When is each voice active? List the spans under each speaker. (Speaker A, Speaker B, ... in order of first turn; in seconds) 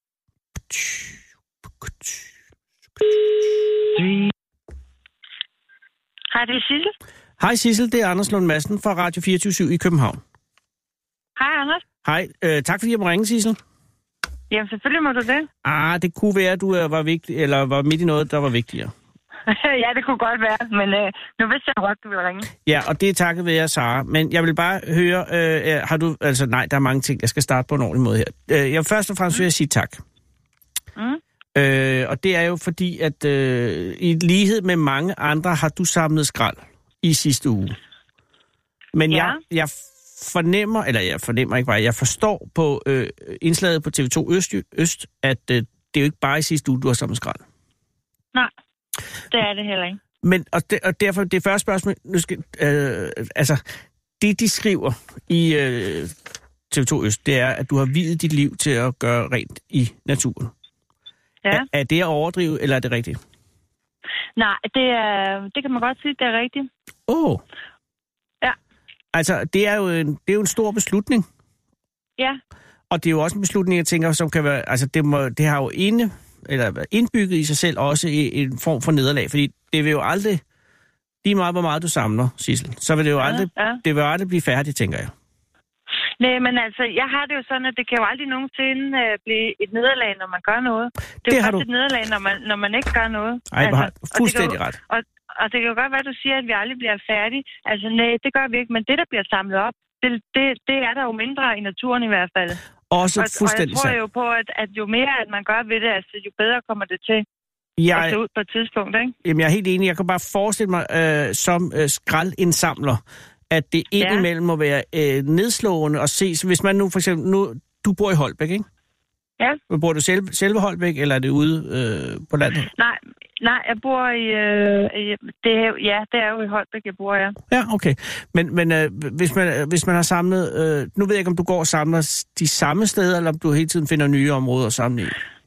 Speaker A: 0.7-1.2, 1.8-2.2, 7.4-10.2, 12.0-13.6, 15.6-18.9, 22.6-30.0, 31.6-37.8, 38.9-47.4, 50.2-53.6, 54.2-56.2, 56.7-60.5, 61.5-63.2, 67.1-67.4, 69.1-71.2, 72.9-80.4, 81.2-85.1, 91.2-91.7, 93.5-94.8, 102.9-104.0, 107.8-108.2, 109.2-118.7, 119.7-122.7, 127.5-135.2
Speaker B: 4.0-4.3, 6.3-6.9, 11.4-11.8, 14.5-15.5, 19.5-22.5, 31.0-31.2, 39.1-39.4, 49.3-50.0, 64.4-66.7, 83.2-83.8, 86.2-102.6, 103.2-107.2, 107.9-109.2, 114.0-114.3, 122.8-127.4